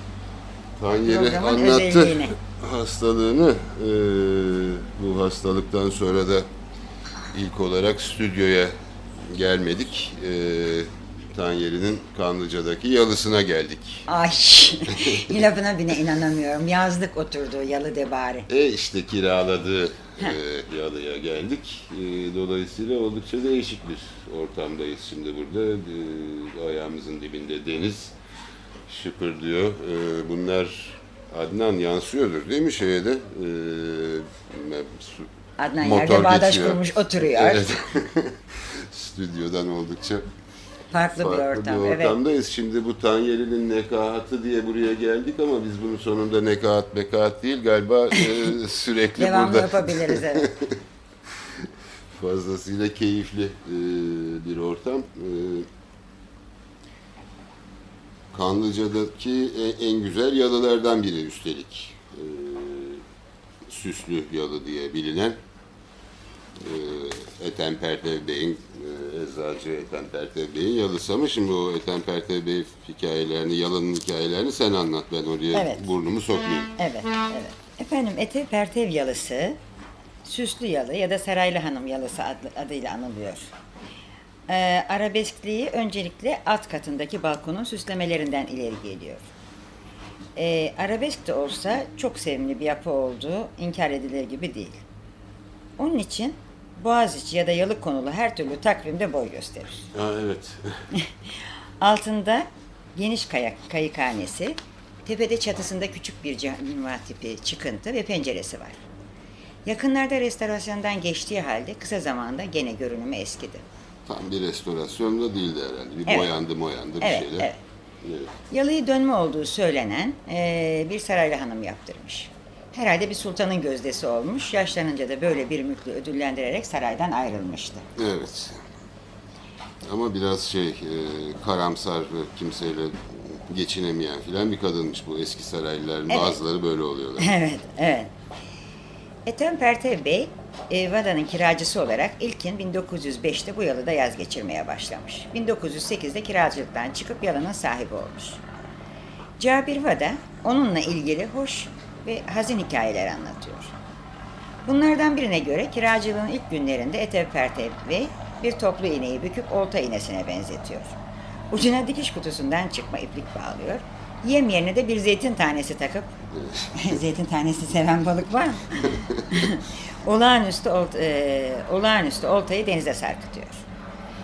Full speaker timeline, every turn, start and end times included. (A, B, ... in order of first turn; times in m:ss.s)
0:00.8-0:06.5 A
0:01.0-0:02.4 B
0:07.3-0:14.0 A
0:14.1-0:18.5 B
0:14.9-0:15.4 A
0:18.5-0:28.1 A
0:28.9-0:40.3 A
0:35.6-0:37.8 B
0:40.9-0:42.1 B
0:41.2-0:50.8 A
0:49.2-0:50.5 B
0:51.4-0:55.7 A
0:58.3-1:03.0 A
1:03.6-1:05.4 A
1:06.6-1:16.7 A
1:15.5-1:15.9 B
1:16.8-1:19.6 B
1:20.2-1:23.5 B
1:24.5-1:29.3 B
1:30.4-1:34.8 B
1:35.8-1:39.9 B
1:39.9-1:40.8 A
1:41.8-1:48.8 B
1:49.6-1:53.6 B
1:54.0-1:57.5 A
1:56.0-1:56.3 B
1:57.0-1:57.6 B
1:58.0-1:58.3 A
1:58.5-2:07.8 B
2:08.0-2:08.6 A
2:09.8-2:17.3 A
2:16.1-2:16.4 B
2:17.2-2:18.1 B
2:19.2-2:28.4 B
2:29.4-2:33.7 B
2:34.6-2:41.0 B
2:41.5-2:46.1 B
2:46.3-2:46.7 A
2:46.7-2:53.6 B
2:48.8-2:49.3 A